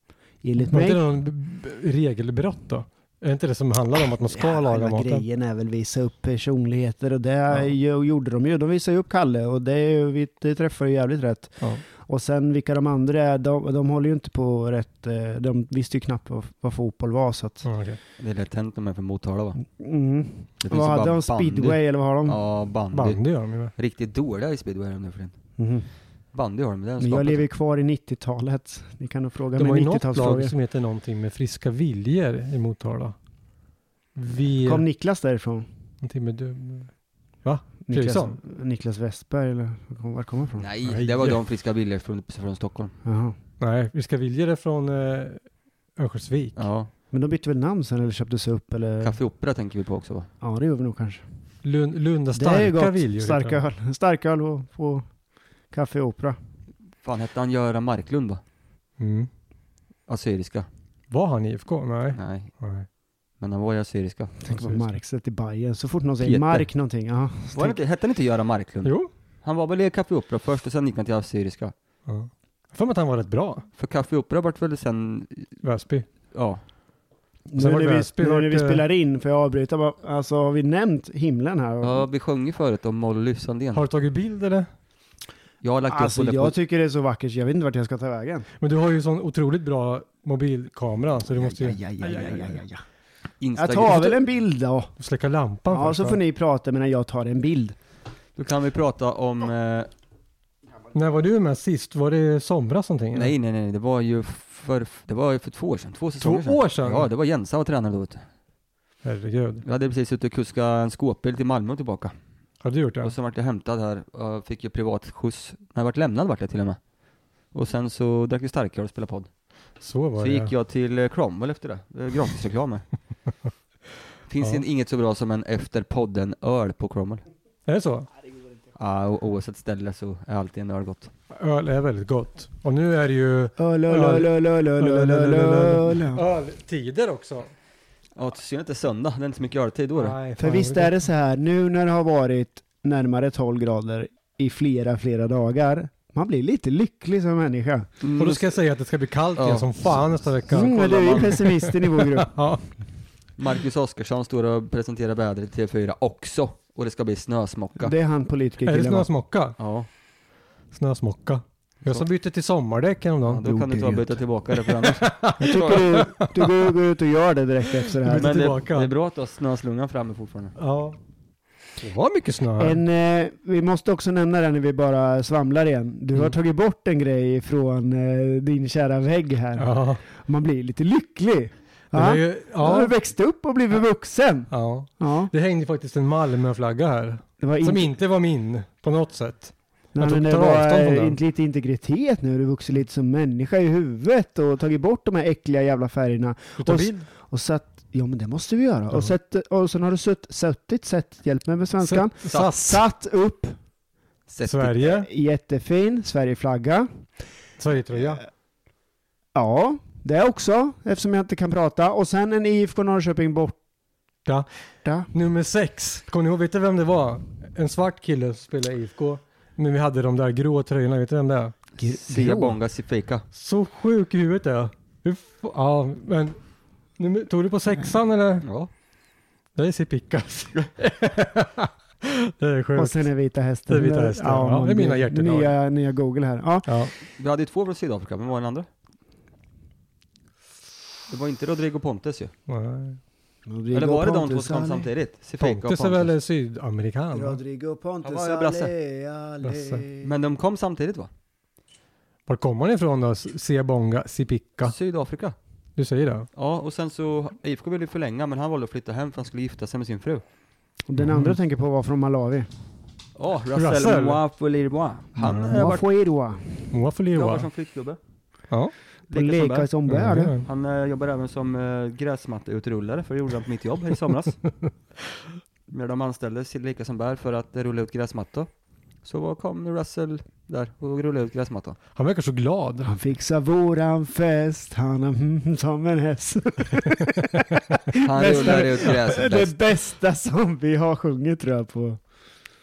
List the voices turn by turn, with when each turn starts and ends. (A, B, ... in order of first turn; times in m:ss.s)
0:00.4-0:01.0 A
0:00.7-0:05.2 B
0:04.3-0:17.7 A
0:17.6-0:18.0 B
0:18.2-0:19.6 C
0:19.6-0:22.4 A
0:20.6-0:25.4 C
0:22.9-0:23.7 B
0:25.6-0:25.9 A
0:26.3-0:27.4 C
0:27.0-0:30.5 A
0:29.6-0:33.2 B
0:34.1-0:34.8 B
0:34.6-0:35.6 A
0:36.0-0:36.9 B
0:37.4-0:38.4 B
0:37.9-0:40.6 A
0:40.6-0:43.0 C
0:40.8-0:41.4 B
0:43.0-0:43.4 A
0:43.6-0:46.6 B
0:46.6-0:46.9 C
0:47.1-0:49.2 A
0:49.0-0:50.3 C
0:50.4-0:51.2 A
0:51.6-0:53.6 B
0:52.4-0:55.1 A
0:55.7-0:56.4 A
0:57.0-0:58.4 C
0:59.0-0:59.3 B
1:00.1-1:00.7 C
1:01.1-1:02.9 B
1:02.1-1:02.5 C
1:03.4-1:04.4 C
1:04.4-1:07.8 A
1:04.5-1:04.8 B
1:06.2-1:06.7 C
1:07.5-1:11.7 C
1:08.8-1:09.1 B
1:12.1-1:13.6 B
1:13.8-1:15.6 C
1:15.6-1:16.1 B
1:16.3-1:16.6 C
1:17.5-1:22.1 A
1:17.6-1:18.8 B
1:21.8-1:23.8 C
1:23.7-1:24.7 B
1:25.6-1:26.6 C
1:25.9-1:28.5 A
1:28.6-1:32.5 B
1:31.6-1:32.8 A
1:32.0-1:32.4 C
1:33.4-1:34.2 C
1:33.6-1:34.9 A
1:35.0-1:36.2 B
1:35.7-1:37.8 A
1:38.4-1:39.9 C
1:40.9-1:43.3 B
1:43.1-1:48.2 C
1:46.2-1:47.1 B
1:49.0-1:49.6 B
1:49.6-1:52.1 C
1:52.6-1:53.1 B
1:53.0-1:56.8 C
1:57.5-1:59.3 C
1:59.8-2:00.5 B
2:00.2-2:02.8 C
2:04.3-2:07.2 C
2:07.6-2:08.1 B
2:08.8-2:11.1 C
2:11.3-2:17.5 B
2:13.6-2:16.2 A
2:18.2-2:20.2 C
2:20.0-2:21.0 B
2:20.4-2:27.9 A
2:28.0-2:28.5 C
2:28.2-2:32.7 B
2:29.4-2:29.9 C
2:30.5-2:32.3 A
2:30.5-2:31.4 C
2:33.4-2:37.9 C
2:37.8-2:39.1 A
2:38.6-2:39.6 B
2:39.6-2:39.9 C
2:40.7-2:43.4 B
2:43.2-2:45.8 C
2:43.4-2:44.2 A
2:44.6-2:46.7 B
2:45.4-2:48.4 A
2:47.8-2:48.9 B
2:48.1-2:50.5 C
2:50.6-2:51.0 B
2:51.8-2:52.8 B
2:52.6-3:05.3 A
2:59.6-3:00.0 B
3:01.9-3:02.9 B
3:04.5-3:11.2 B
3:07.4-3:07.9 A
3:10.0-3:23.6 A
3:16.6-3:17.1 B
3:21.8-3:22.8 B
3:22.3-3:22.5 C
3:24.3-3:24.8 C
3:24.5-3:25.1 B
3:24.8-3:26.9 A
3:27.6-3:28.2 B
3:29.4-3:33.6 A
3:35.1-3:41.6 B
3:41.8-3:42.5 A
3:41.8-3:43.2 C
3:43.3-3:46.4 B
3:47.0-3:48.5 B
3:48.4-3:48.7 C
3:49.5-3:53.1 B
3:52.8-3:56.8 A
3:53.7-3:55.5 B
3:56.6-3:56.9 B
3:57.2-3:58.7 C
4:01.1-4:02.3 C
4:02.5-4:03.0 B
4:03.5-4:04.9 A
4:03.7-4:06.1 C
4:05.4-4:07.4 B
4:07.1-4:10.1 A
4:08.0-4:08.7 C
4:09.4-4:09.8 B
4:10.0-4:11.1 C
4:12.3-4:14.8 B
4:14.6-4:15.4 C
4:15.8-4:16.3 B
4:16.4-4:20.2 C
4:20.9-4:22.5 A
4:21.0-4:21.4 B
4:23.1-4:25.8 C
4:23.5-4:24.2 B
4:25.2-4:25.6 B
4:25.5-4:26.7 A
4:26.7-4:27.5 B
4:27.1-4:28.0 C
4:29.1-4:29.7 C
4:29.1-4:30.4 A
4:29.9-4:30.5 B
4:30.4-4:34.4 C
4:35.7-4:38.5 C
4:39.0-4:41.8 C
4:42.0-4:42.9 B
4:42.8-4:52.0 A
4:48.0-4:49.6 C